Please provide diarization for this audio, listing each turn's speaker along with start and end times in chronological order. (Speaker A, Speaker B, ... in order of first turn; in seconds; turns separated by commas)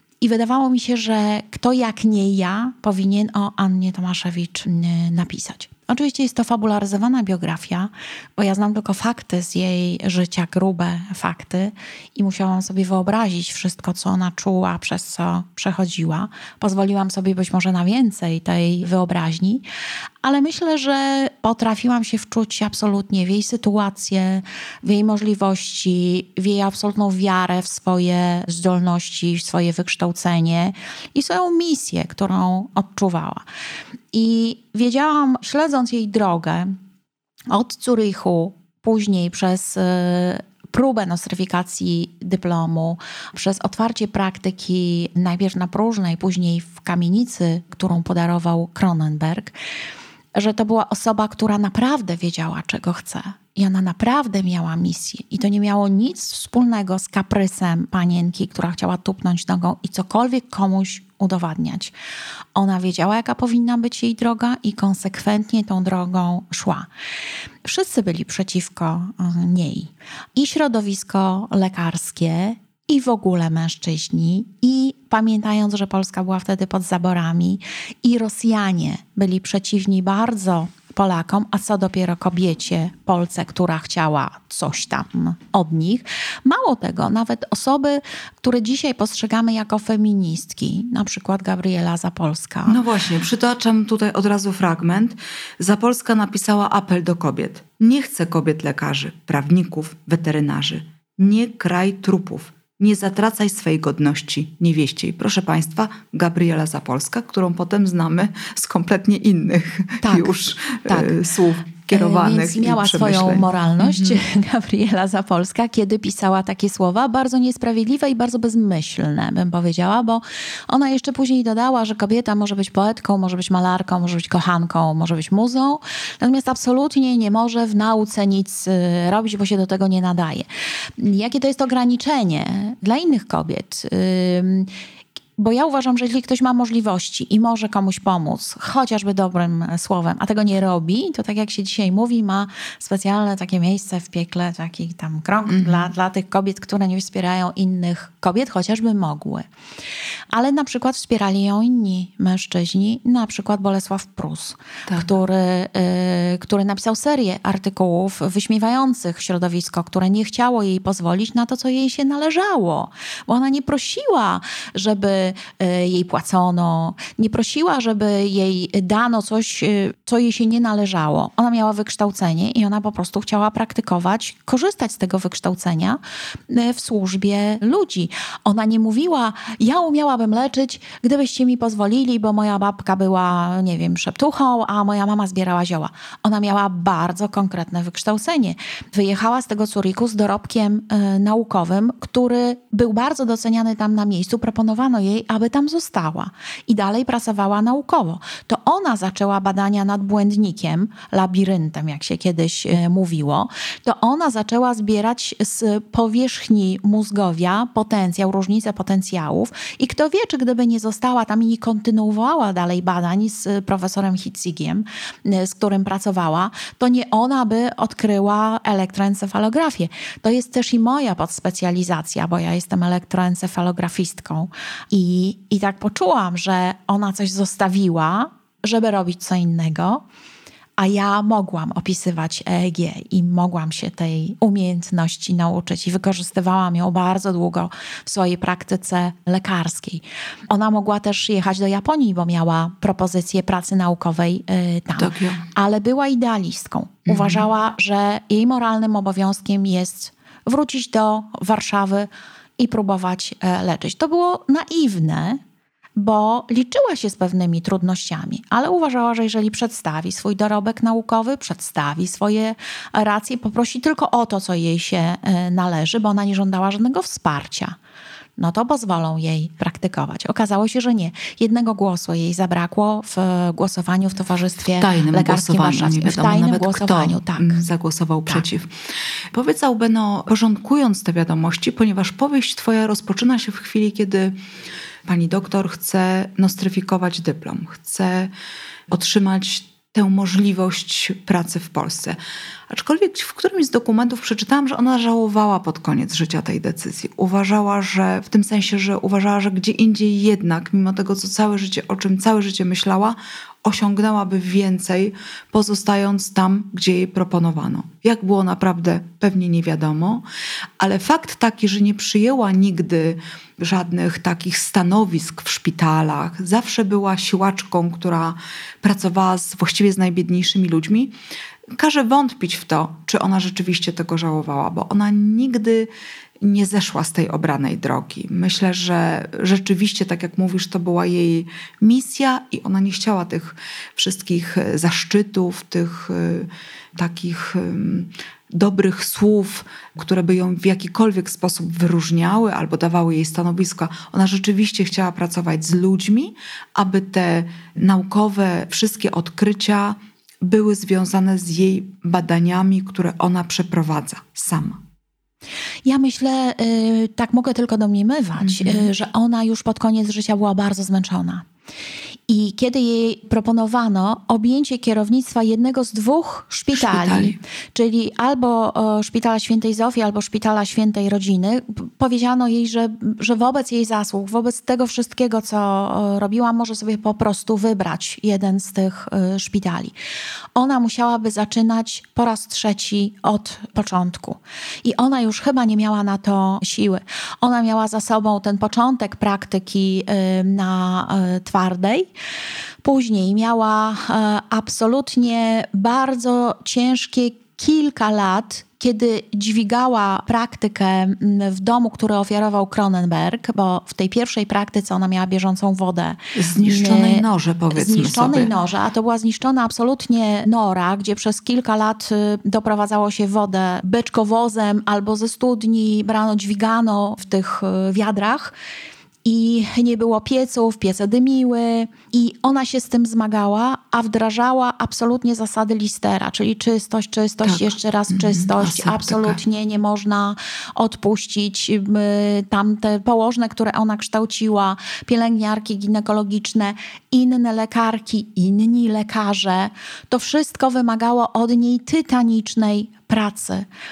Speaker A: 0.2-19.6, Speaker A: 20.2-33.4, Speaker A: 34.1-36.8, Speaker A: 37.5-49.5, Speaker A: 50.4-61.9, Speaker A: 62.5-66.9, Speaker A: 67.7-92.8, Speaker B: 92.7-114.2, Speaker A: 110.0-110.3, Speaker A: 110.9-111.2, Speaker A: 111.9-130.5, Speaker A: 131.0-134.7, Speaker A: 135.4-149.5, Speaker B: 145.5-145.9, Speaker A: 150.3-230.0, Speaker A: 230.8-255.4, Speaker B: 245.0-245.4, Speaker B: 247.1-247.4, Speaker A: 256.0-267.8, Speaker A: 268.4-277.6, Speaker B: 274.8-278.7, Speaker B: 279.3-284.4, Speaker B: 285.1-288.3, Speaker B: 288.9-292.2, Speaker B: 292.7-310.2, Speaker B: 310.8-321.1, Speaker B: 321.7-325.9, Speaker B: 326.4-354.8, Speaker A: 355.9-361.4, Speaker B: 358.4-358.9, Speaker A: 362.3-379.9, Speaker B: 366.7-367.4, Speaker A: 380.6-392.1, Speaker A: 392.8-418.6, Speaker B: 406.4-408.5, Speaker A: 419.2-443.7, Speaker B: 427.4-429.4